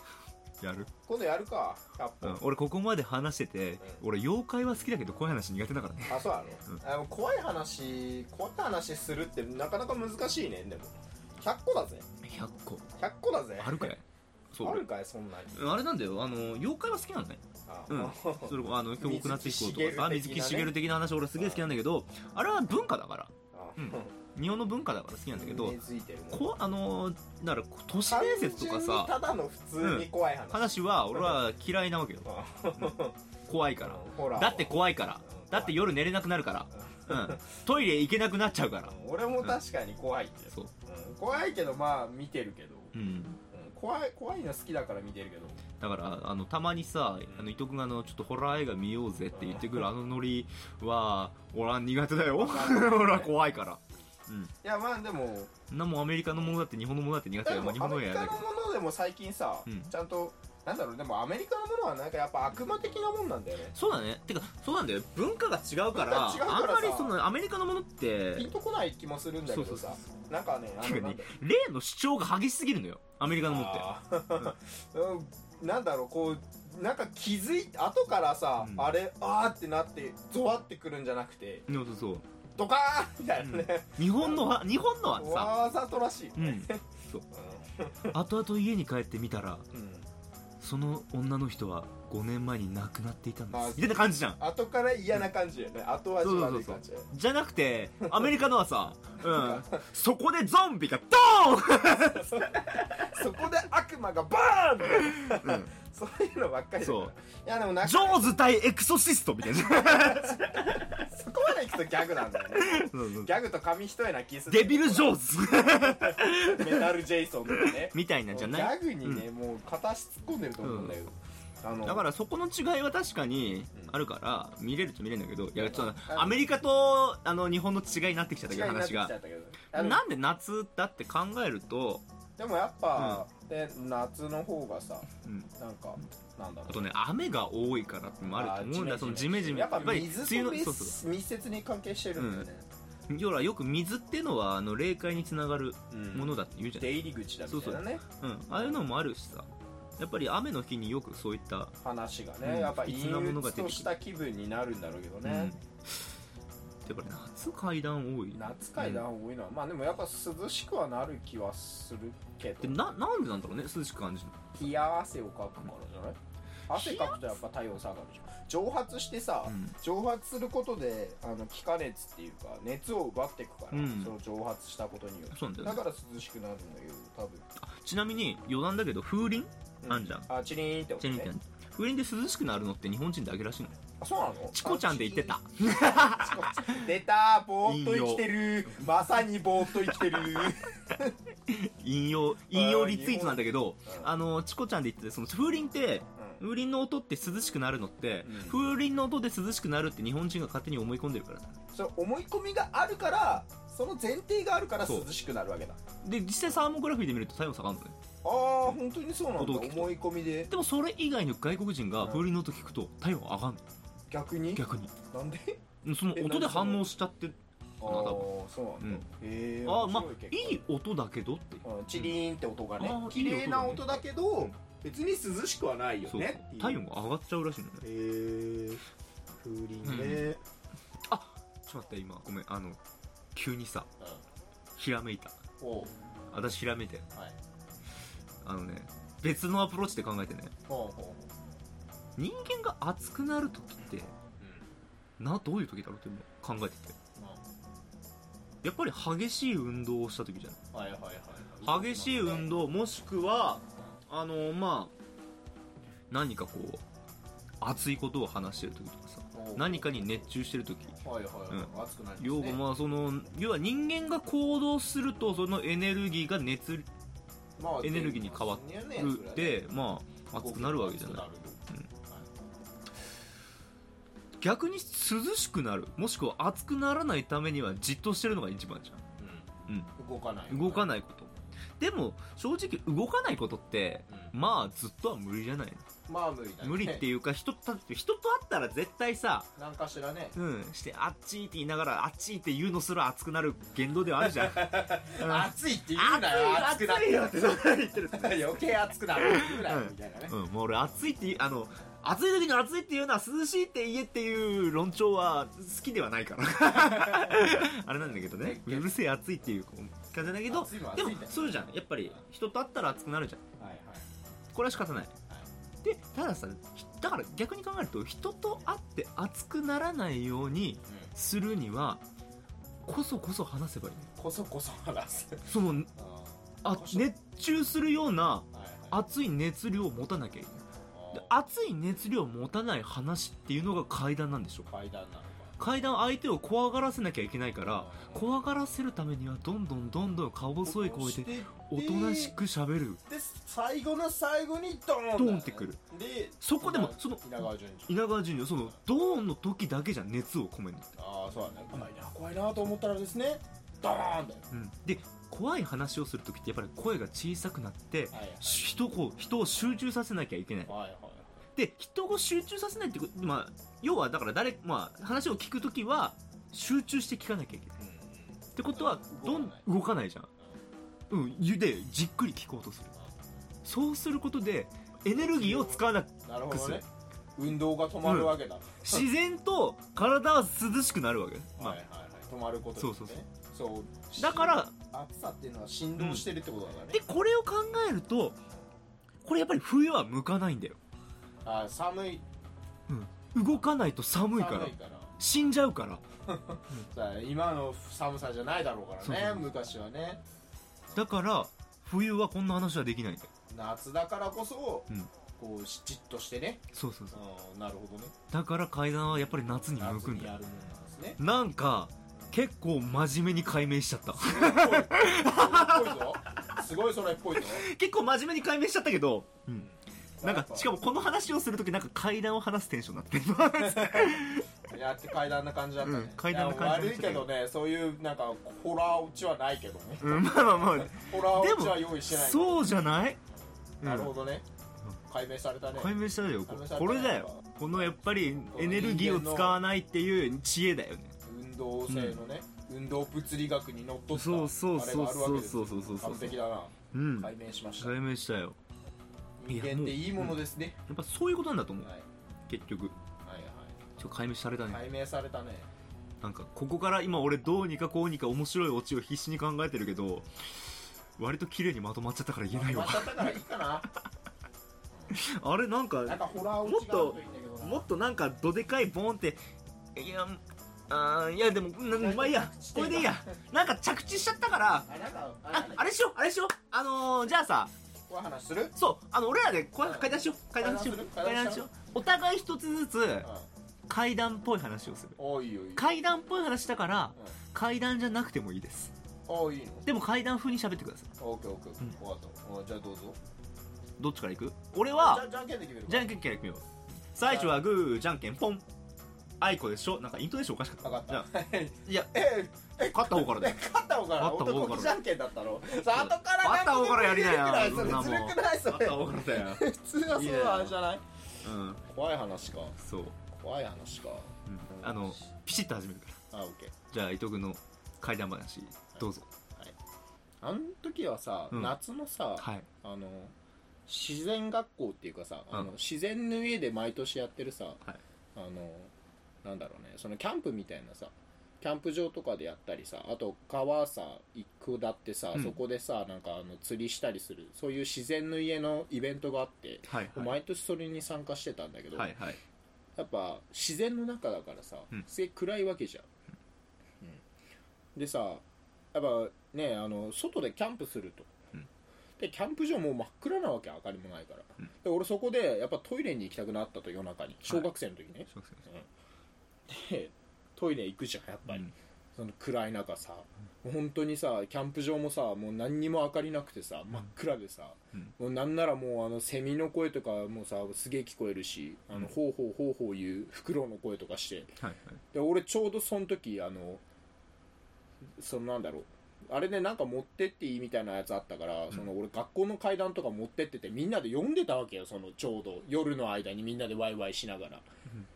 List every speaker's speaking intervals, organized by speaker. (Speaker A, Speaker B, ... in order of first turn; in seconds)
Speaker A: 0.6-0.9, 2.2-6.8, 12.2-12.9, 13.6-14.9, 15.5-25.8, 26.3-29.1, 29.8-32.9, 33.5-39.6, 42.9-43.4, 45.8-54.5, 55.7-58.5, 59.7-59.9, 63.7-68.5, 69.5-70.0, 70.8-74.5, 78.6-78.9, 81.7-82.2, 83.4-85.6, 86.4-87.2, 88.1-89.7, 90.6-94.4, 96.2-102.4, 105.1-105.7, 106.8-107.1, 107.8-110.9, 112.5-113.3, 114.5-116.9, 117.5-119.3, 120.6-121.0, 121.8-129.1, 129.7-132.1, 133.0-133.2, 135.2-135.5, 136.7-141.0, 142.2-142.5, 143.1-151.8, 152.4-153.9, 155.2-155.6, 156.8-159.1, 162.6-164.4, 166.7-167.2, 169.5-169.8, 173.7-174.1, 175.3-175.8, 177.6-180.3, 181.0-183.8, 184.5-186.8, 187.6-188.9, 189.9-190.2, 191.5-201.6, 206.0-208.0, 209.4-209.9, 210.5-213.7, 214.6-214.9, 215.8-218.3, 218.8-219.1, 219.7-222.1, 222.8-224.5, 226.1-227.8, 229.8-230.3, 231.1-232.8, 233.3-233.9, 234.8-235.4, 236.3-237.1, 238.4-240.5, 242.2-244.1, 245.2-247.0, 248.6-250.6, 251.6-254.9, 256.1-256.8, 257.6-261.0, 261.5-266.9, 267.8-271.9, 274.4-279.0, 280.5-285.9, 286.6-289.5, 290.4-313.4, 314.5-315.1, 315.8-322.0, 322.9-324.1, 325.5-325.9, 326.6-334.7, 335.6-343.0, 345.2-345.8, 346.4-350.9, 354.5-360.7, 361.6-367.8, 368.6-370.3, 371.1-372.9, 373.6-376.8, 378.0-381.8, 382.8-383.2, 384.2-384.8, 386.0-386.3, 386.9-388.4, 389.2-390.8, 392.9-396.0, 399.0-399.5, 400.9-403.3, 406.7-407.2, 408.3-410.3, 411.2-416.0, 417.4-419.7, 420.2-424.5, 425.8-427.3, 430.0-433.2, 433.8-434.1, 435.8-441.2, 441.9-442.2, 444.1-446.4, 446.9-448.6, 449.5-451.9, 452.5-452.9, 454.0-454.9, 456.2-463.4, 465.1-469.4, 469.9-474.9, 475.5-477.7, 478.8-483.3, 483.9-485.2, 485.8-488.9, 489.9-491.1, 494.0-495.2, 495.9-498.6, 499.4-501.3, 501.9-502.1, 502.9-503.6, 504.2-505.0, 505.9-510.8, 511.4-511.8, 512.8-513.2, 514.5-516.2, 516.9-519.3, 521.5-521.8, 522.4-522.7, 539.9-540.4, 541.9-542.4, 558.3-558.7, 574.6-575.0
Speaker B: 1.1-2.4, 6.1-12.1, 13.0-13.9, 14.6-15.8, 17.7-20.8, 21.4-21.6, 23.5-24.1, 25.3-26.5, 28.1-31.4, 32.2-33.2, 33.8-35.9, 36.8-37.6, 38.9-42.9, 43.5-45.6, 47.3-47.5, 49.3-49.9, 52.3-53.5, 54.6-55.5, 57.4-63.7, 65.9-67.2, 68.3-71.3, 73.4-81.7, 82.6-84.6, 85.1-88.1, 89.7-90.1, 93.5-97.1, 98.0-98.3, 99.2-99.8, 101.8-108.4, 109.7-122.0, 125.5-126.4, 128.5-130.0, 132.4-136.9, 138.3-142.7, 145.9-148.8, 151.8-155.5, 158.3-162.8, 164.5-166.2, 166.7-177.4, 179.8-181.3, 184.0-191.2, 192.5-194.1, 198.2-198.6, 201.7-205.8, 208.2-210.5, 212.0-212.3, 214.1-215.6, 216.1-216.9, 217.8-220.7, 221.6-226.8, 227.8-228.8, 229.4-230.4, 235.6-235.9, 240.7-241.4, 244.4-244.7, 250.7-252.5, 259.3-260.3, 261.0-262.6, 267.6-269.7, 270.4-272.3, 279.2-280.9, 286.1-287.0, 289.6-290.4, 294.2-300.4, 306.7-308.9, 310.2-312.2, 313.6-314.1, 324.2-327.1, 328.5-329.0, 330.9-331.3, 334.7-335.6, 337.7-338.3, 340.6-342.4, 343.1-348.0, 351.0-354.5, 358.1-358.6, 360.7-361.4, 367.8-369.7, 375.1-379.1, 381.6-387.0, 391.4-392.2, 394.2-395.2, 396.3-400.2, 403.5-408.1, 409.8-411.2, 414.2-417.7, 419.6-420.8, 423.6-432.7, 433.8-434.5, 435.1-437.9, 438.5-439.6, 441.2-448.0, 449.4-450.8, 451.8-452.1, 453.2-453.8, 454.7-455.7, 462.5-463.9, 466.1-467.9, 471.9-473.3, 474.9-475.9, 478.1-478.8, 479.8-481.7, 485.2-485.9, 489.3-489.9, 491.2-493.2, 494.9-496.2, 497.2-497.6, 500.8-511.0, 511.9-512.8, 513.3-515.2, 516.3-516.8, 520.4-523.4, 523.9-527.8, 528.4-528.9, 529.4-542.2, 543.0-546.1, 548.0-551.3, 552.2-558.9, 559.7-574.6, 575.1-576.8, 578.2-587.6